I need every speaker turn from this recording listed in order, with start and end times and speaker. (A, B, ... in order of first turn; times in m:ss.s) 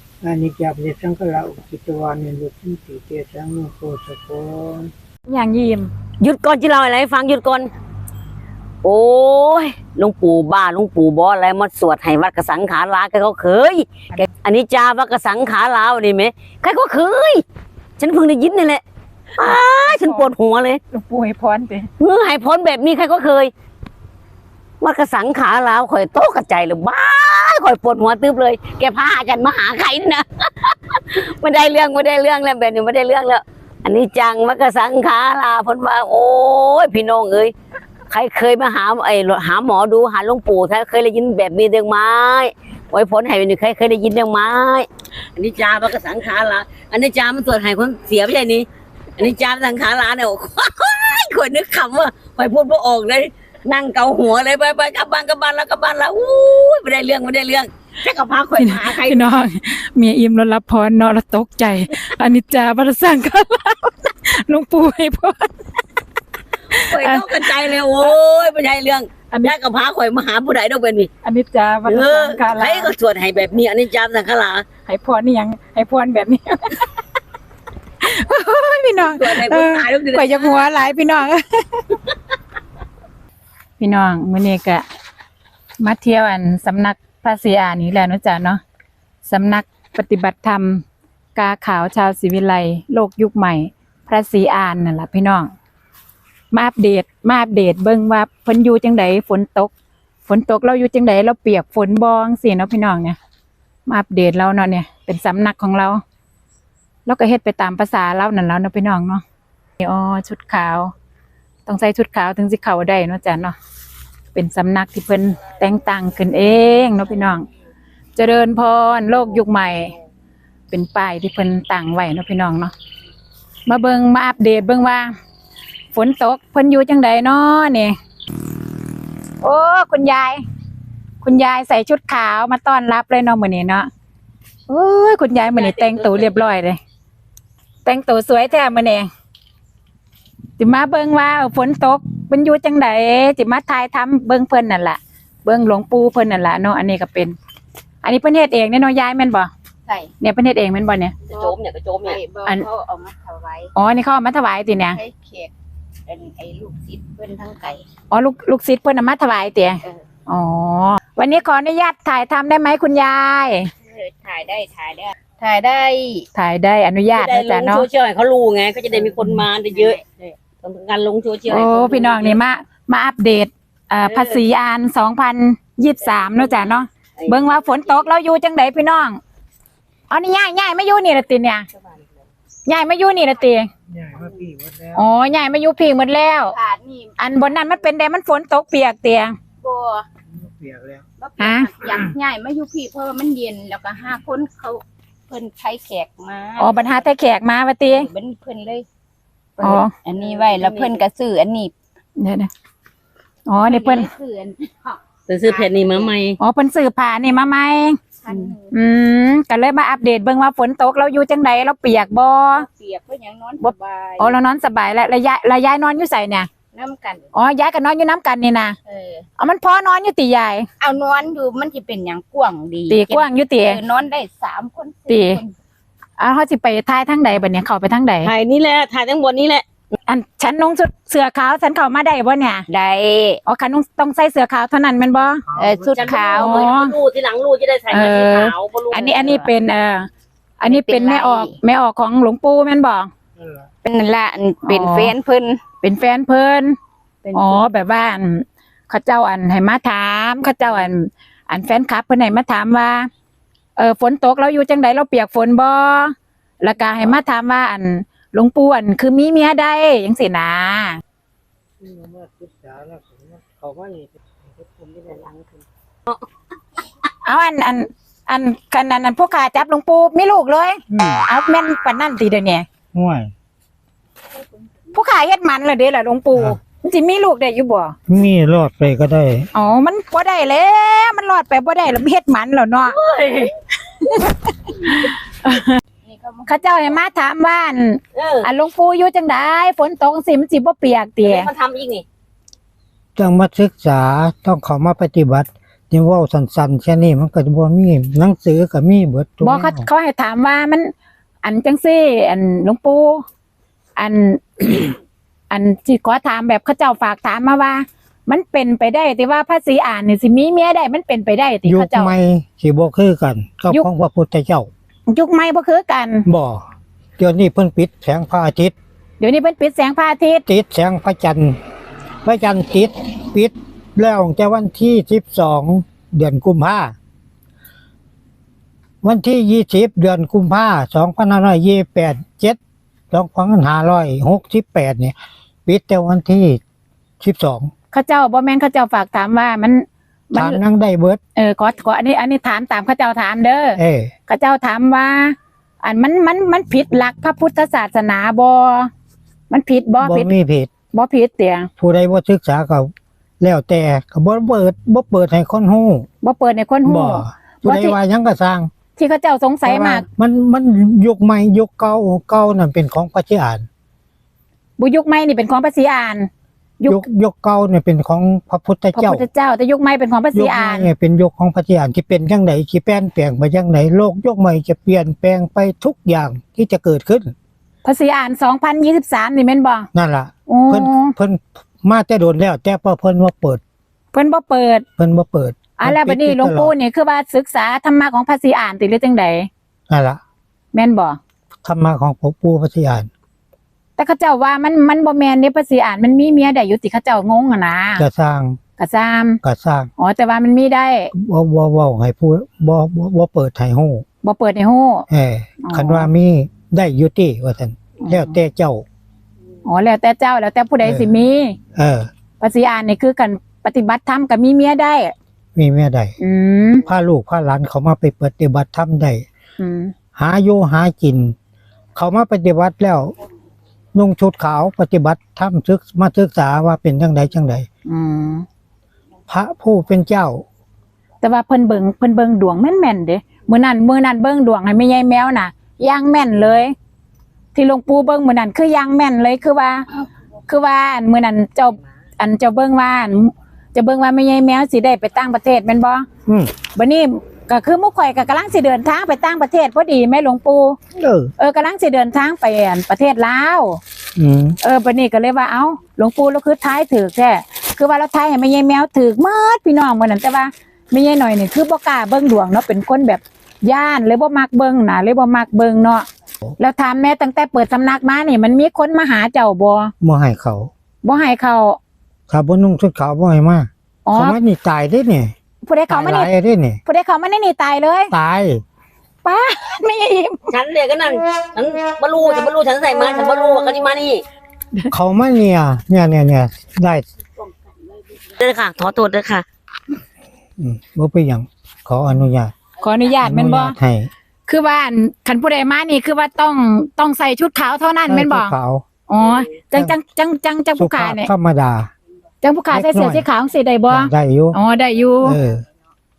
0:00.2-0:04.9 A
0:05.3-0:05.9 B
0:06.2-0:07.7 C
0:08.8-0:17.4 C
0:18.0-0:18.8 C
0:19.4-0:20.8 C
0:19.4-0:20.3 B
0:20.9-0:21.9 B
0:22.0-0:23.5 C
0:24.8-0:37.5 C
0:38.1-0:48.7 C
0:49.2-0:59.3 C
0:58.6-1:05.5 B
1:06.7-1:07.8 B
1:06.8-1:11.1 C
1:09.3-1:09.6 B
1:11.2-1:12.9 B
1:11.9-1:14.6 C
1:14.9-1:16.8 B
1:18.0-1:21.8 B
1:19.0-1:20.6 C
1:23.8-1:24.8 B
1:25.8-1:28.6 B
1:29.2-1:30.8 B
1:31.4-1:35.5 B
1:36.5-1:39.7 B
1:40.3-1:43.2 B
1:43.9-1:46.0 B
1:47.1-1:49.2 B
1:49.8-1:50.9 B
1:51.7-1:53.6 B
1:54.3-1:57.5 B
1:58.2-1:59.9 B
2:00.7-2:02.7 B
2:03.7-2:05.1 B
2:05.9-2:08.0 B
2:09.4-2:10.4 B
2:11.2-2:13.9 B
2:14.7-2:16.8 B
2:17.8-2:19.1 B
2:20.6-2:27.4 B
2:28.0-2:29.5 B
2:30.2-2:31.2 B
2:31.3-2:32.2 C
2:31.3-2:33.7 D
2:33.8-2:35.0 B
2:34.9-2:35.5 D
2:36.1-2:37.9 D
2:38.1-2:43.7 B
2:43.9-2:46.3 D
2:46.4-2:47.9 B
2:47.1-2:52.4 C
2:49.7-2:50.0 D
2:51.5-2:59.2 B
2:54.0-2:54.4 C
2:56.2-2:57.9 C
3:00.1-3:01.7 B
3:02.7-3:03.7 B
3:03.9-3:05.1 A
3:04.9-3:06.6 B
3:06.5-3:07.5 D
3:07.2-3:09.4 B
3:09.6-3:10.0 D
3:10.3-3:11.0 A
3:11.2-3:17.0 D
3:11.4-3:11.7 B
3:11.8-3:12.1 A
3:16.6-3:18.1 B
3:17.9-3:18.9 D
3:19.6-3:19.9 B
3:19.6-3:21.7 D
3:20.2-3:21.0 C
3:22.2-3:22.5 B
3:23.5-3:24.1 B
3:23.6-3:26.1 D
3:25.3-3:26.4 C
3:26.4-3:32.7 B
3:28.2-3:28.8 D
3:32.5-3:34.4 D
3:33.6-3:36.5 B
3:36.7-3:37.3 D
3:37.3-3:38.8 B
3:38.9-3:39.2 D
3:39.4-3:40.7 B
3:40.8-3:45.5 D
3:42.9-3:43.8 B
3:45.1-3:45.4 B
3:46.2-3:48.3 B
3:48.2-3:49.6 C
3:50.1-3:52.7 B
3:52.7-3:53.4 D
3:53.5-3:55.4 B
3:55.5-3:56.2 A
3:55.6-3:56.7 D
3:55.9-3:59.4 C
3:56.3-3:57.0 B
3:57.9-4:00.1 B
4:00.6-4:03.1 B
4:00.7-4:01.6 D
4:03.4-4:03.7 A
4:03.8-4:05.6 D
4:04.6-4:05.2 B
4:05.8-4:06.8 B
4:07.2-4:07.6 D
4:07.3-4:13.1 B
4:13.8-4:21.0 B
4:21.8-4:25.6 A
4:27.2-4:32.7 B
4:30.9-4:31.3 A
4:32.9-4:33.3 A
4:34.9-4:38.0 B
4:38.1-4:39.5 A
4:39.5-4:43.0 B
4:42.8-4:43.5 C
4:44.0-4:45.8 B
4:46.0-4:47.0 D
4:46.5-4:51.5 B
4:48.2-4:48.5 C
4:51.2-4:52.0 C
4:53.2-4:59.9 A
4:59.4-5:03.2 B
5:04.0-5:05.0 B
5:05.5-5:12.1 B
5:11.6-5:14.7 A
5:15.1-5:16.3 B
5:16.3-5:16.6 A
5:17.2-5:18.8 A
5:19.2-5:20.4 B
5:20.5-5:21.6 A
5:22.2-5:26.9 A
5:29.0-5:32.6 A
5:33.1-5:35.2 A
5:35.7-5:36.6 A
5:37.2-5:37.7 A
5:37.9-5:40.6 B
5:40.4-5:41.2 A
5:41.4-5:48.9 B
5:43.8-5:44.1 A
5:49.5-5:50.3 B
5:50.0-5:50.7 A
5:50.9-5:51.7 B
5:51.8-5:56.1 A
5:56.2-5:58.0 B
5:56.8-5:58.7 A
5:59.0-6:00.0 B
5:59.6-6:03.7 A
6:04.8-6:06.3 B
6:06.9-6:09.3 A
6:09.0-6:10.9 B
6:10.3-6:17.3 A
6:17.8-6:19.9 B
6:19.9-6:23.6 A
6:20.5-6:21.2 B
6:24.1-6:24.9 B
6:25.0-6:26.7 A
6:25.8-6:29.5 B
6:29.9-6:30.2 A
6:30.7-6:31.2 B
6:31.6-6:33.1 A
6:34.0-6:38.0 B
6:38.0-6:38.6 A
6:38.8-6:39.4 B
6:39.4-6:39.9 A
6:40.0-6:41.1 B
6:41.1-6:44.0 A
6:44.2-6:45.1 B
6:45.1-6:48.8 A
6:45.6-6:46.1 B
6:48.0-6:48.4 B
6:49.6-6:51.6 B
6:50.8-6:51.1 A
6:51.8-6:52.1 A
6:52.4-6:55.1 B
6:55.6-6:56.2 A
6:56.2-6:56.8 B
6:56.9-6:59.3 A
6:59.6-7:00.0 B
7:00.1-7:01.4 A
7:02.0-7:03.1 A
7:04.0-7:07.7 A
7:07.9-7:08.5 B
7:09.3-7:10.4 A
7:11.2-7:16.7 B
7:17.6-7:26.1 B
7:26.3-7:26.5 A
7:26.7-7:30.8 B
7:31.0-7:31.3 A
7:31.4-7:33.8 B
7:34.2-7:34.6 A
7:34.6-7:46.1 B
7:46.6-7:49.9 B
7:50.0-7:50.7 A
7:51.0-7:51.8 B
7:52.3-7:55.3 A
7:54.1-7:54.4 B
7:55.6-7:56.3 B
7:55.9-7:56.8 A
7:56.9-7:58.1 B
7:58.1-7:58.6 A
7:59.2-8:00.4 B
8:00.5-8:04.2 C
8:04.9-8:07.0 A
8:08.4-8:09.4 C
8:10.6-8:12.5 A
8:12.8-8:13.8 B
8:13.2-8:14.1 A
8:14.5-8:18.6 B
8:18.1-8:18.8 A
8:19.1-8:21.3 B
8:20.8-8:21.9 A
8:22.4-8:25.4 B
8:22.7-8:23.2 A
8:23.9-8:24.6 A
8:25.2-8:25.6 A